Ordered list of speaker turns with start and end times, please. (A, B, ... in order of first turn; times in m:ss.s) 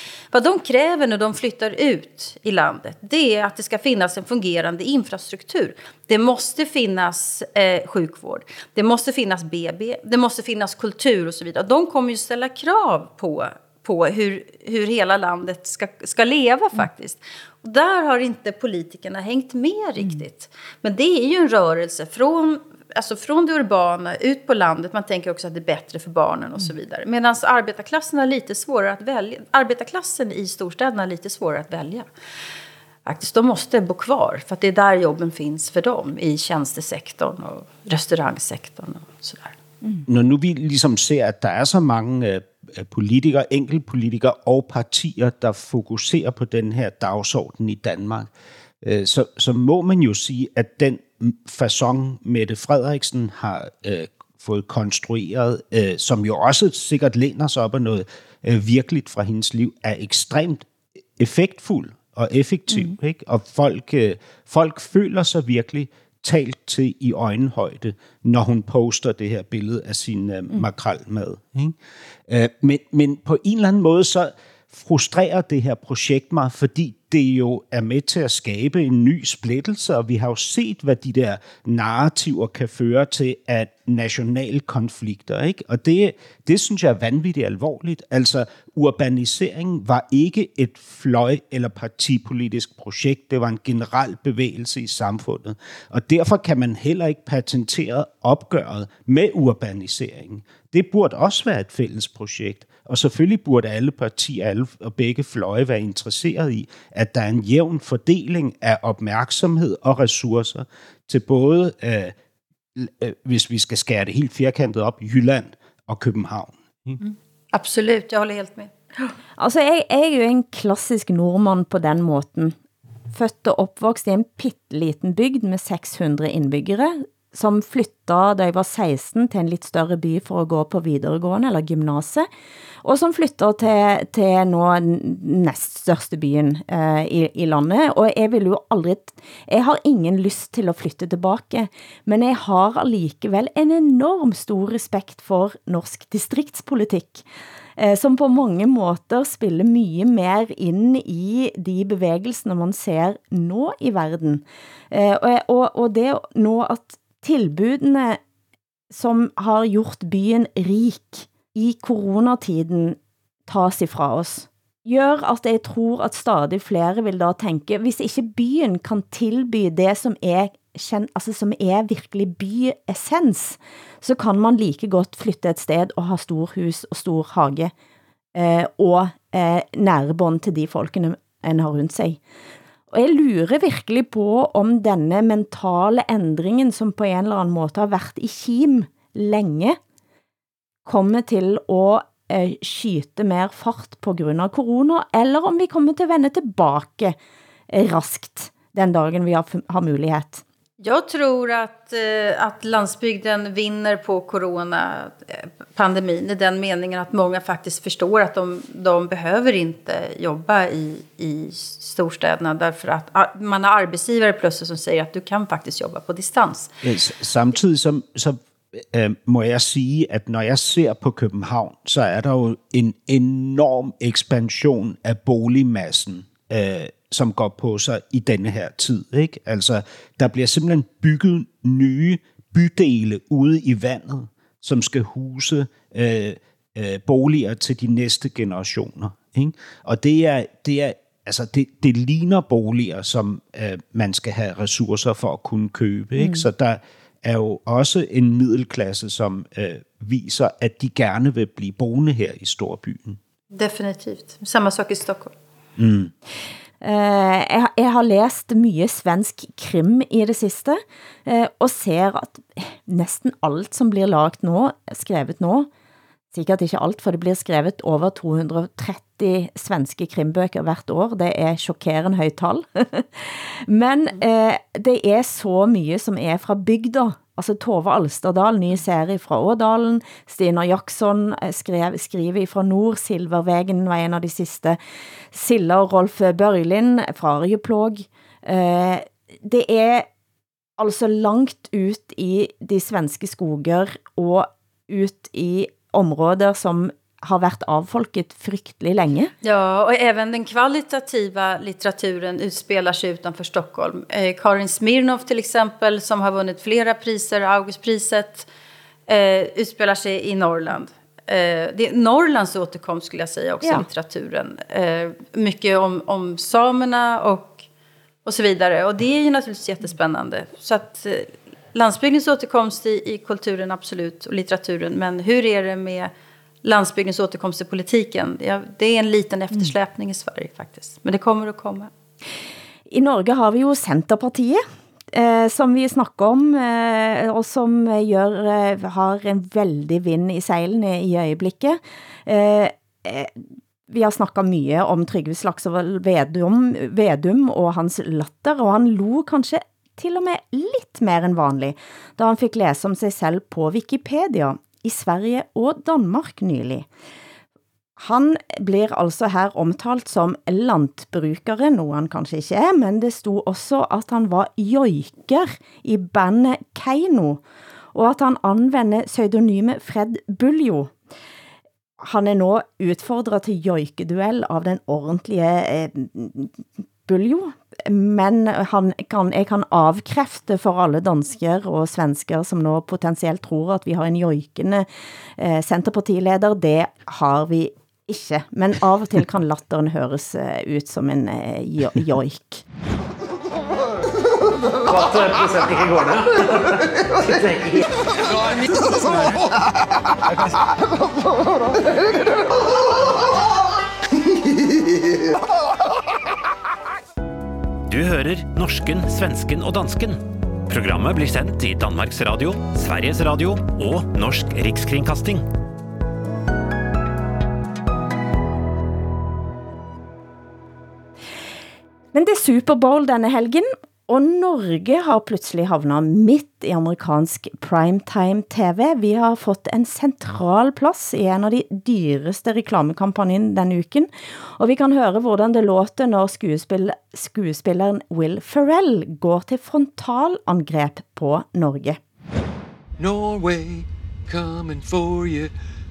0:00.3-0:32.1 A
0:33.0-0:39.6 A
0:40.1-0:48.3 B
0:48.8-1:11.7 B
1:12.3-1:52.1 B
1:52.8-1:57.0 B
1:57.5-1:58.7 A
1:59.4-2:02.6 C
2:03.1-2:12.3 C
2:12.8-2:27.2 C
2:27.8-2:38.2 C
2:38.9-2:57.7 C
2:58.3-3:02.2 C
3:02.9-3:09.8 C
3:10.8-3:17.2 C
3:17.7-3:20.4 C
3:20.8-3:36.7 A
3:36.8-3:38.4 B
3:38.9-4:13.2 B
4:06.2-4:06.5 C
4:13.5-4:15.3 A
4:15.8-4:16.1 B
4:16.8-4:25.7 C
4:26.3-4:44.8 C
4:45.3-4:50.1 C
4:50.8-4:59.3 C
4:59.4-5:08.5 A
5:09.1-5:17.6 A
5:18.2-5:26.1 A
5:26.6-5:31.9 A
5:32.9-5:56.9 C
5:58.0-6:07.4 C
6:07.9-6:10.9 C
6:12.0-6:24.9 C
6:25.4-6:32.6 C
6:38.2-6:39.4 D
6:47.9-6:55.4 E
7:02.1-7:22.0 C
7:23.0-7:25.5 D